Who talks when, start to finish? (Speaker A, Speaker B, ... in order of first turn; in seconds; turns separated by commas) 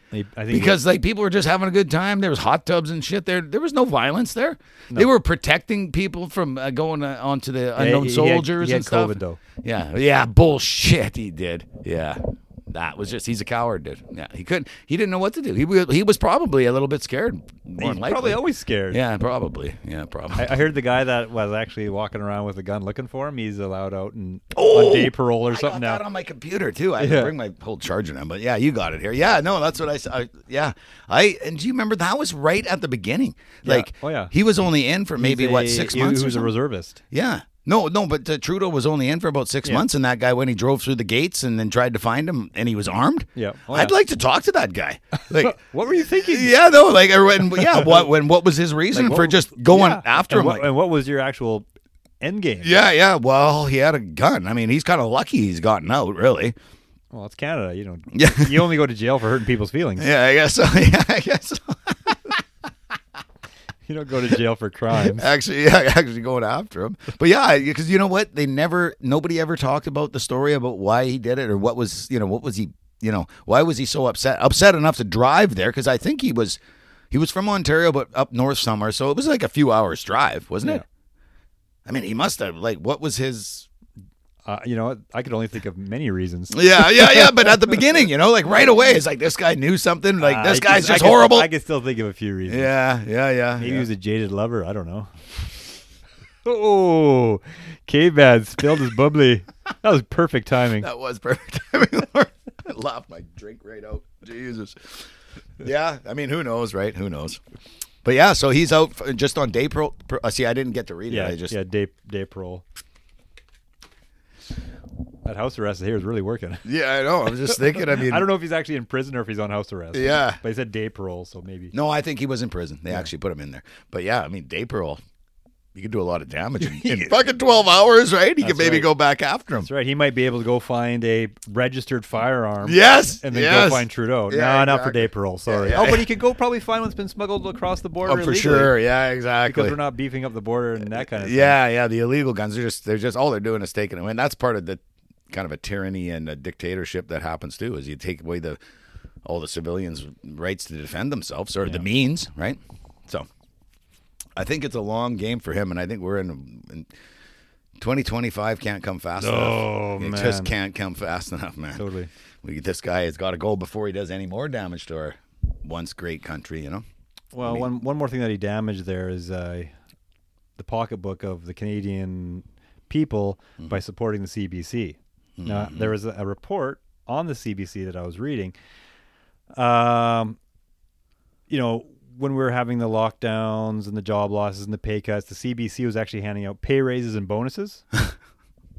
Speaker A: 0.1-0.8, Speaker B: 0.5-20.5, Speaker A: 7.8-9.4, Speaker A: 17.8-19.0, Speaker A: 20.4-26.0, Speaker B: 24.5-36.5, Speaker A: 27.0-27.3, Speaker A: 33.6-34.3, Speaker A: 35.2-37.0, Speaker B: 37.1-50.7, Speaker A: 43.4-44.0, Speaker A: 45.1-46.5, Speaker A: 47.5-48.1, Speaker A: 48.9-51.7, Speaker A: 52.2-52.8, Speaker B: 52.6-56.5, Speaker A: 57.1-60.1, Speaker B: 58.1-58.7, Speaker B: 60.0-62.4, Speaker A: 63.9-65.3, Speaker B: 64.9-76.6, Speaker B: 77.1-80.8, Speaker B: 81.9-83.7, Speaker A: 84.5-87.8, Speaker B: 86.5-91.5, Speaker A: 90.2-92.7, Speaker B: 92.5-93.9, Speaker A: 93.6-95.1, Speaker A: 96.4-100.9, Speaker B: 100.8-107.4, Speaker B: 108.0-111.6, Speaker A: 111.1-112.6, Speaker A: 115.2-116.7, Speaker B: 116.7-118.3, Speaker A: 117.5-121.7, Speaker B: 119.9-120.4, Speaker B: 121.7-125.0, Speaker B: 125.8-129.7, Speaker A: 126.6-127.2, Speaker A: 128.4-128.9, Speaker A: 129.6-138.8, Speaker B: 132.6-136.1, Speaker B: 138.1-139.8, Speaker A: 139.5-141.6, Speaker B: 140.8-148.6, Speaker B: 149.3-153.3, Speaker B: 154.4-156.9, Speaker B: 157.8-161.8, Speaker A: 159.2-160.5, Speaker A: 161.8-162.1, Speaker B: 162.4-166.8, Speaker A: 167.3-169.7, Speaker B: 167.4-167.7, Speaker A: 170.6-178.5, Speaker B: 175.4-175.9, Speaker A: 179.5-180.4, Speaker A: 181.5-187.8